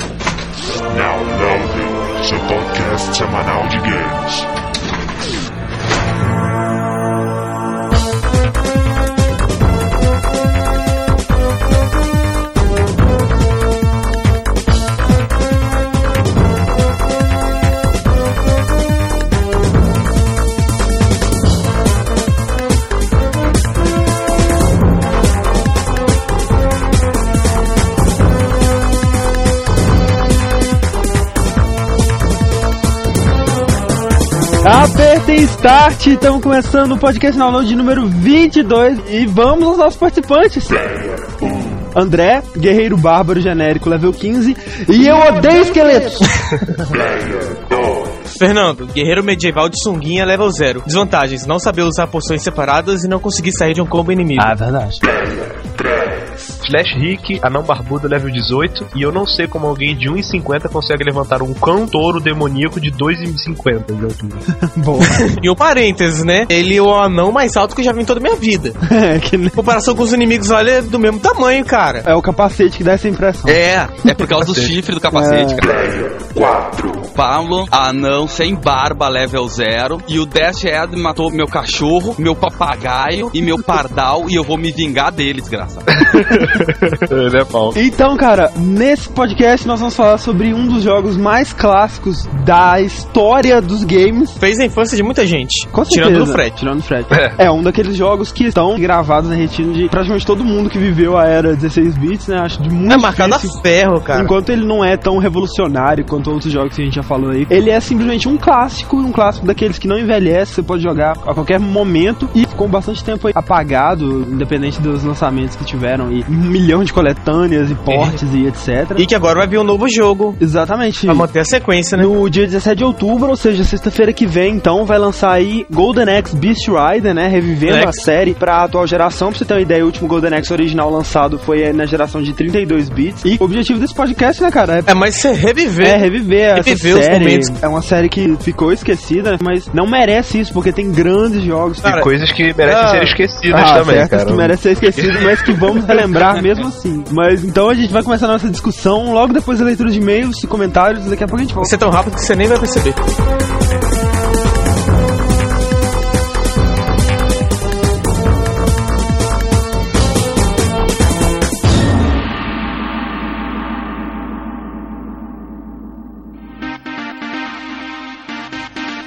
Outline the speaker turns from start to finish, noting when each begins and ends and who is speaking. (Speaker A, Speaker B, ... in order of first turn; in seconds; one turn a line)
Speaker A: 0.7-4.5
Speaker B: 34.6-46.3
Speaker A: 40.8-41.8
Speaker A: 46.9-48.2
Speaker C: 48.3-54.5
Speaker B: 54.4-55.0
Speaker A: 55.0-56.5
Speaker D: 56.6-64.4
Speaker B: 64.6-65.2
Speaker C: 65.1-68.8
Speaker B: 68.8-69.6
Speaker C: 69.5-72.0
Speaker B: 72.0-73.6
Speaker E: 73.5-75.9
Speaker D: 74.3-74.7
Speaker B: 75.1-75.6
Speaker A: 75.6-77.1
Speaker E: 77.0-86.0
Speaker D: 85.9-87.8
Speaker B: 87.7-94.4
Speaker C: 94.4-96.5
Speaker B: 95.7-103.6
Speaker D: 97.1-97.4
Speaker C: 102.9-104.3
Speaker B: 104.1-119.0
Speaker C: 117.9-118.2
Speaker C: 119.0-120.4
Speaker B: 120.4-121.3
Speaker C: 121.1-122.1
Speaker B: 122.0-134.9
Speaker C: 127.7-128.0
Speaker C: 134.9-136.0
Speaker B: 135.8-142.0
Speaker C: 136.5-137.5
Speaker D: 141.9-146.0
Speaker C: 142.6-143.2
Speaker B: 143.5-151.7
Speaker C: 151.6-153.0